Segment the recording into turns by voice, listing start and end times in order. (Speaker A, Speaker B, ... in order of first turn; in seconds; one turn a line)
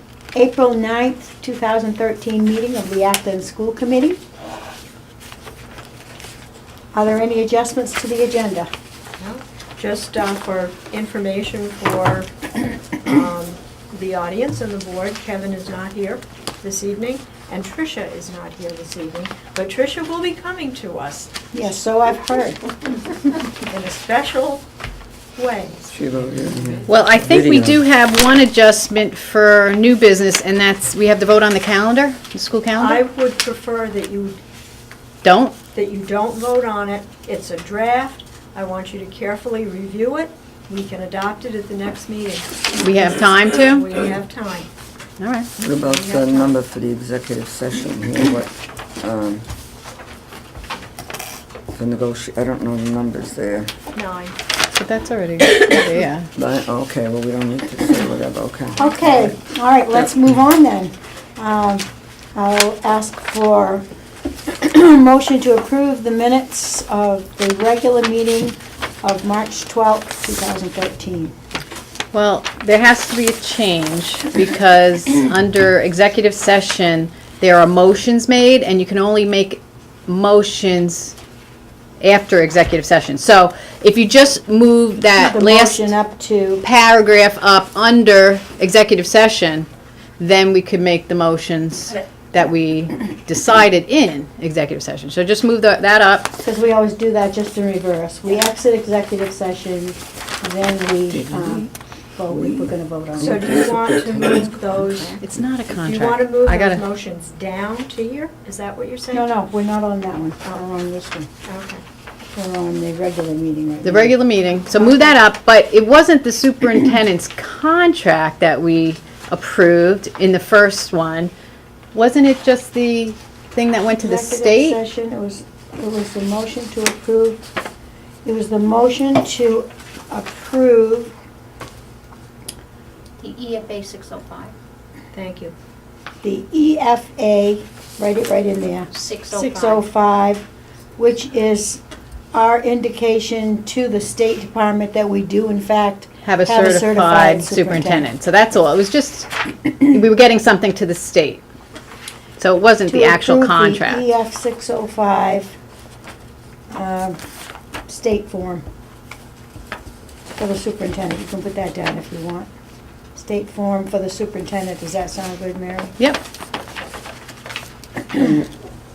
Speaker A: 0.3-4.2
Speaker A: 6.9-8.7
Speaker B: 9.2-12.3
Speaker B: 13.0-21.3
Speaker A: 21.5-22.6
Speaker B: 23.6-24.6
Speaker B: 25.4-25.9
Speaker C: 25.9-27.8
Speaker D: 26.9-33.0
Speaker B: 32.7-34.4
Speaker D: 35.2-35.6
Speaker B: 35.7-44.7
Speaker D: 42.8-43.9
Speaker D: 45.2-45.5
Speaker B: 45.6-46.5
Speaker C: 45.6-49.5
Speaker C: 51.7-53.7
Speaker B: 53.9-54.4
Speaker D: 54.7-56.3
Speaker C: 56.4-59.4
Speaker A: 58.8-63.8
Speaker A: 64.5-71.3
Speaker D: 72.1-81.2
Speaker D: 82.0-85.9
Speaker A: 85.2-86.6
Speaker D: 86.6-89.7
Speaker D: 90.2-96.3
Speaker A: 96.4-103.4
Speaker C: 101.1-101.7
Speaker C: 102.3-105.2
Speaker B: 103.2-105.2
Speaker D: 105.2-106.8
Speaker B: 105.7-109.3
Speaker A: 109.1-111.3
Speaker B: 111.5-111.8
Speaker A: 112.3-115.0
Speaker D: 113.8-121.3
Speaker B: 114.8-115.2
Speaker D: 121.9-124.8
Speaker A: 124.0-127.4
Speaker A: 128.2-131.1
Speaker E: 133.2-134.5
Speaker B: 135.1-135.5
Speaker A: 136.2-140.4
Speaker E: 138.9-139.8
Speaker A: 141.0-141.8
Speaker A: 142.3-148.1
Speaker D: 146.2-151.4
Speaker D: 152.4-154.1
Speaker A: 152.9-155.5
Speaker A: 156.7-157.2
Speaker A: 157.9-158.6
Speaker A: 160.4-162.5
Speaker A: 163.1-165.9
Speaker C: 168.1-168.4